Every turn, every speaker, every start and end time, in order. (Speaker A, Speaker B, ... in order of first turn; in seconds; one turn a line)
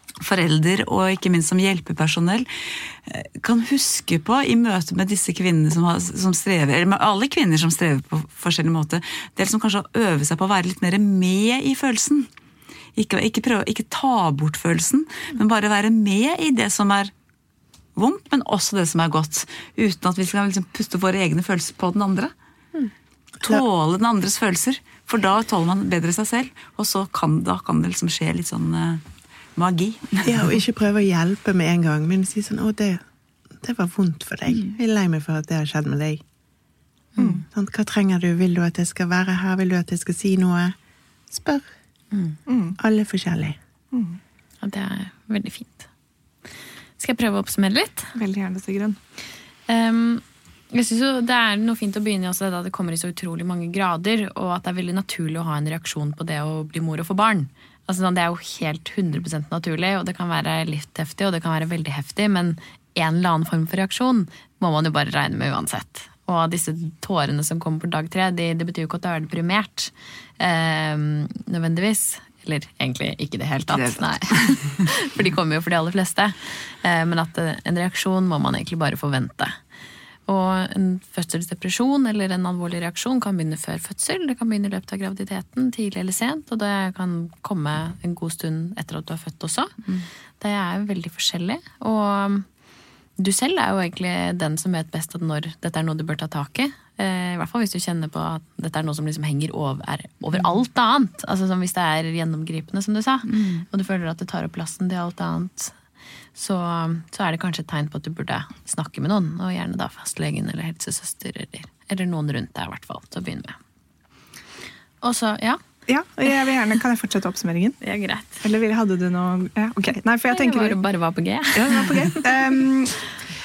Speaker A: 0.2-12.3
Speaker A: 13.0-17.1
Speaker A: 18.0-22.3
Speaker A: 23.4-29.0
Speaker A: 29.6-30.5
Speaker B: 30.2-33.0
Speaker B: 33.6-36.2
Speaker B: 37.5-40.8
Speaker B: 41.3-41.7
Speaker C: 42.1-42.4
Speaker D: 42.5-42.8
Speaker B: 42.8-43.6
Speaker D: 43.9-44.2
Speaker C: 44.6-45.9
Speaker C: 47.0-48.1
Speaker D: 48.1-49.0
Speaker C: 49.7-79.6
Speaker A: 73.7-74.6
Speaker C: 80.3-89.8
Speaker C: 90.4-92.5
Speaker C: 93.2-105.8
Speaker A: 103.3-103.7
Speaker C: 106.4-113.6
Speaker C: 115.0-115.6
Speaker D: 115.9-117.8
Speaker C: 117.8-118.4
Speaker D: 118.4-120.8
Speaker C: 120.3-122.2
Speaker D: 121.5-123.0